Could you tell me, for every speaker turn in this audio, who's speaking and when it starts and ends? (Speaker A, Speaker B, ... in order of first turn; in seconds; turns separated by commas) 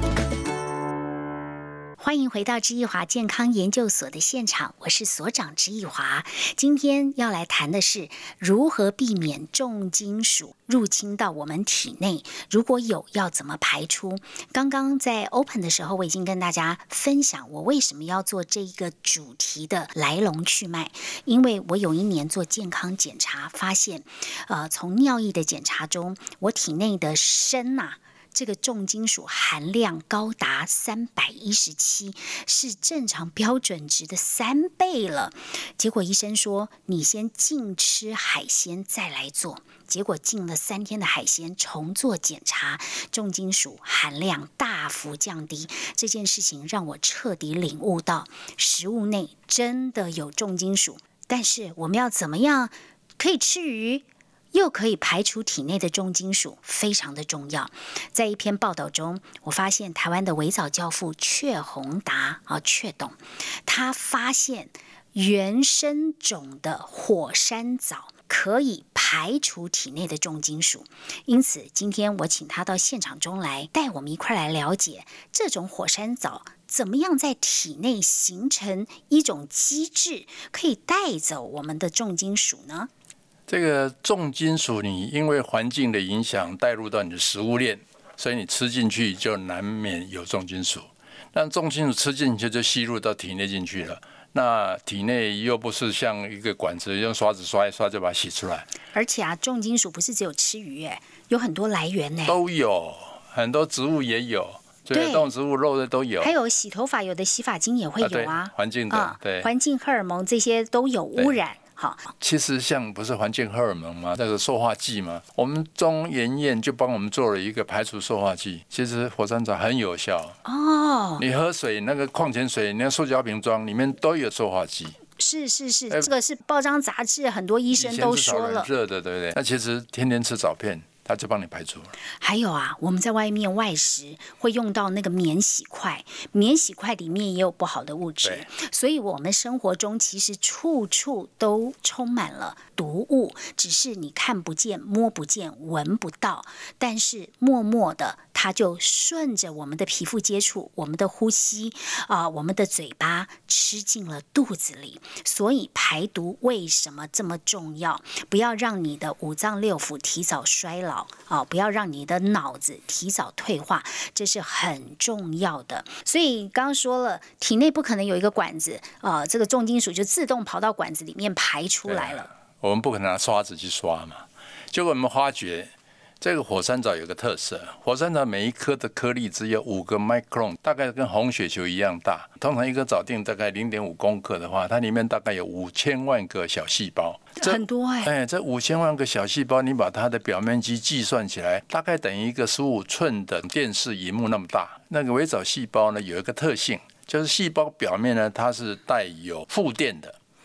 Speaker A: 2.0-82.9, Speaker B: 83.5-98.7, Speaker A: 98.9-102.3, Speaker B: 102.2-106.3, Speaker A: 104.9-105.3, Speaker A: 106.2-112.1, Speaker B: 108.0-109.5, Speaker B: 112.2-120.4, Speaker A: 120.4-121.2, Speaker B: 121.2-125.0, Speaker A: 125.2-128.7, Speaker B: 127.7-131.9, Speaker A: 132.2-172.3, Speaker B: 171.9-200.2, Speaker A: 187.4-188.1